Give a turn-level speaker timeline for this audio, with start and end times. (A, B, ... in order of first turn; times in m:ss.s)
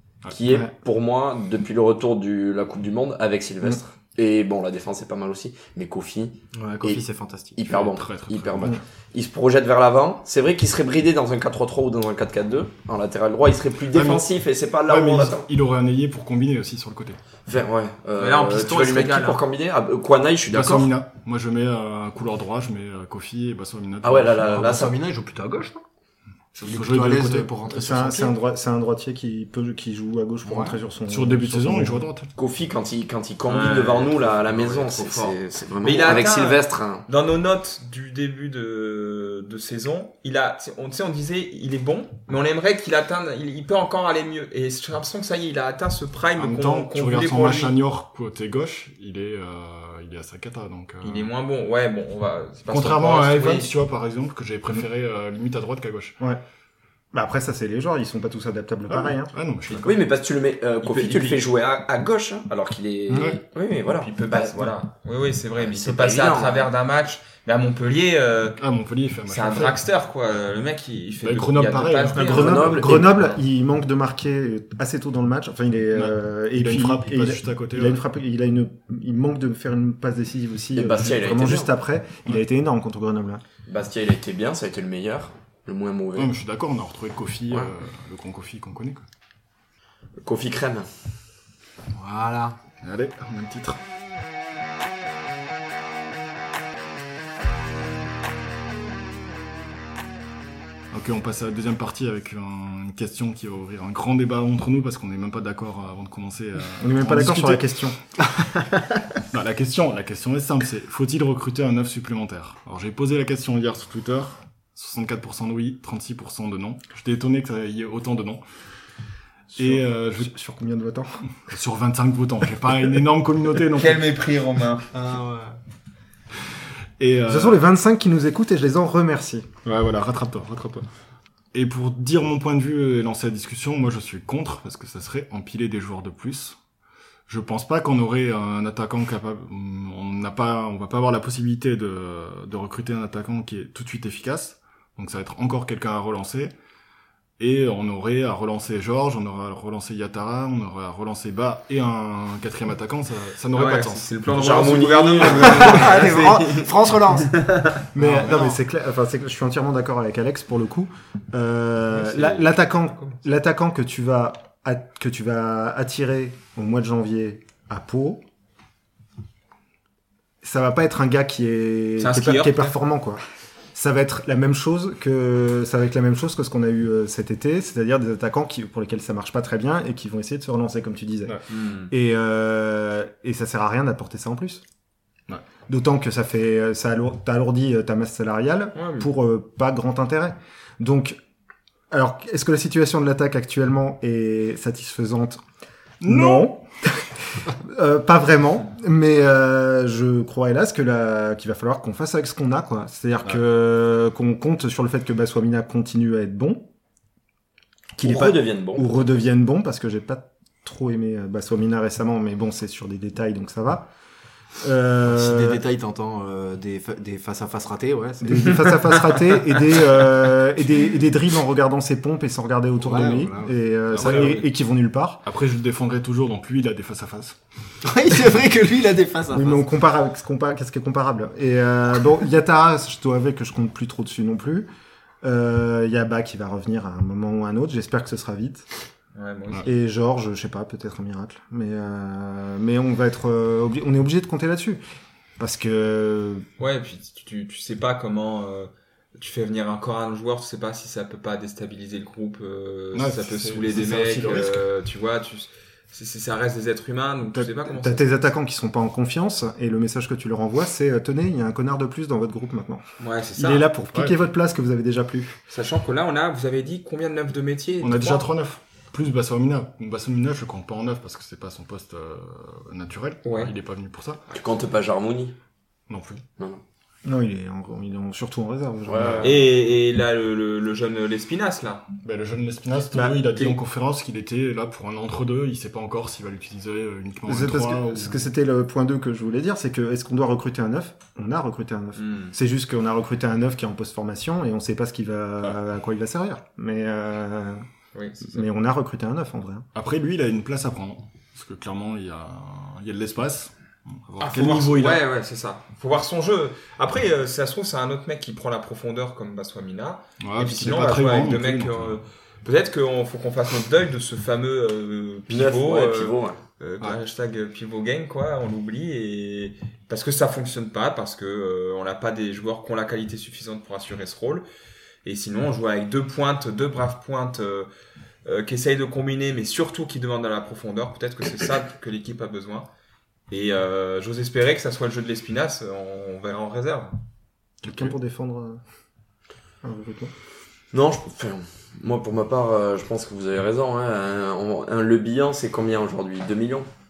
0:00.3-0:07.0 A
0:06.5-0:07.6 B
0:07.5-0:15.5 A
0:07.6-0:08.8 C
0:13.9-0:14.3 C
0:14.8-0:17.2 C
0:17.5-0:20.9 A
0:18.2-0:19.4 D
0:20.5-0:24.8 C
0:24.0-0:24.9 A
0:24.5-0:25.8 B
0:26.6-0:27.5 C
0:26.6-0:28.3 B
0:27.7-0:32.1 E
0:30.4-0:30.8 B
0:31.1-0:32.3 C
0:32.4-0:37.0 A
0:33.5-0:47.7 D
0:46.4-0:51.3 C
0:51.0-0:53.7 D
0:52.7-0:56.2 C
0:57.1-0:59.3 E
0:58.9-1:00.0 C
0:59.8-1:04.7 A
1:00.8-1:01.5 D
1:03.1-1:03.4 C
1:03.9-1:08.6 D
1:05.6-1:06.7 A
1:08.6-1:09.8 C
1:09.3-1:12.8 D
1:11.2-1:12.9 C
1:12.1-1:23.4 E
1:12.2-1:13.3 A
1:15.9-1:18.0 C
1:20.7-1:21.7 A
1:23.7-1:26.3 A
1:26.2-1:29.0 C
1:30.2-1:30.9 A
1:31.9-1:32.6 B
1:32.8-1:33.8 C
1:40.9-1:47.7 C
1:46.8-1:48.0 E
1:49.3-1:58.4 C
1:59.5-2:00.3 C
1:59.6-2:01.2 E
2:01.5-2:04.1 C
2:03.7-2:04.9 D
2:04.9-2:05.6 B
2:07.0-2:07.6 C
2:07.3-2:09.5 E
2:09.6-2:10.9 C
2:11.5-2:16.6 C
2:17.3-2:26.5 C
2:27.4-2:34.7 C
2:33.5-2:37.8 D
2:34.3-2:35.9 A
2:35.5-2:37.5 B
2:37.9-2:48.2 E
2:38.0-2:38.4 C
2:42.0-2:43.2 D
2:50.4-2:53.2 E
2:52.0-2:52.7 D
2:53.7-3:01.4 E
3:01.5-3:01.9 D
3:01.9-3:04.6 E
3:05.7-3:11.2 E
3:08.7-3:09.1 D
3:11.9-3:15.4 E
3:16.0-3:16.5 C
3:16.0-3:26.7 E
3:28.0-3:33.9 E
3:28.0-3:29.1 A
3:34.6-3:35.6 E
3:35.0-3:38.6 B
3:38.2-3:45.2 E
3:42.8-3:43.5 B
3:43.9-3:44.4 C
3:44.0-3:44.4 D
3:45.2-3:47.4 C
3:47.8-3:49.6 B
3:49.3-3:54.7 E
3:55.2-3:58.6 E
3:59.1-3:59.7 D
3:59.6-4:04.8 E
4:05.4-4:06.4 E
4:06.6-4:18.2 D
4:12.9-4:14.6 C
4:17.7-4:22.8 E
4:23.0-4:23.7 D
4:23.4-4:25.4 E
4:25.5-4:28.2 D
4:27.8-4:34.2 C
4:33.2-4:33.5 D
4:34.3-4:35.4 A
4:35.9-4:36.2 C
4:37.0-4:39.5 E
4:38.8-4:39.4 A
4:39.2-4:41.8 D
4:42.0-4:48.3 C
4:42.9-4:43.5 E
4:47.3-4:57.6 E
4:52.0-4:52.3 D
4:57.9-4:58.4 D
4:58.3-4:59.6 E
4:59.7-5:05.0 C
5:04.2-5:24.4 D
5:10.2-5:12.0 C
5:15.3-5:16.4 A
5:25.0-5:27.7 D
5:28.2-5:32.7 D
5:33.3-5:37.0 D
5:37.6-5:38.6 E
5:39.6-5:40.1 E
5:40.7-5:46.7 A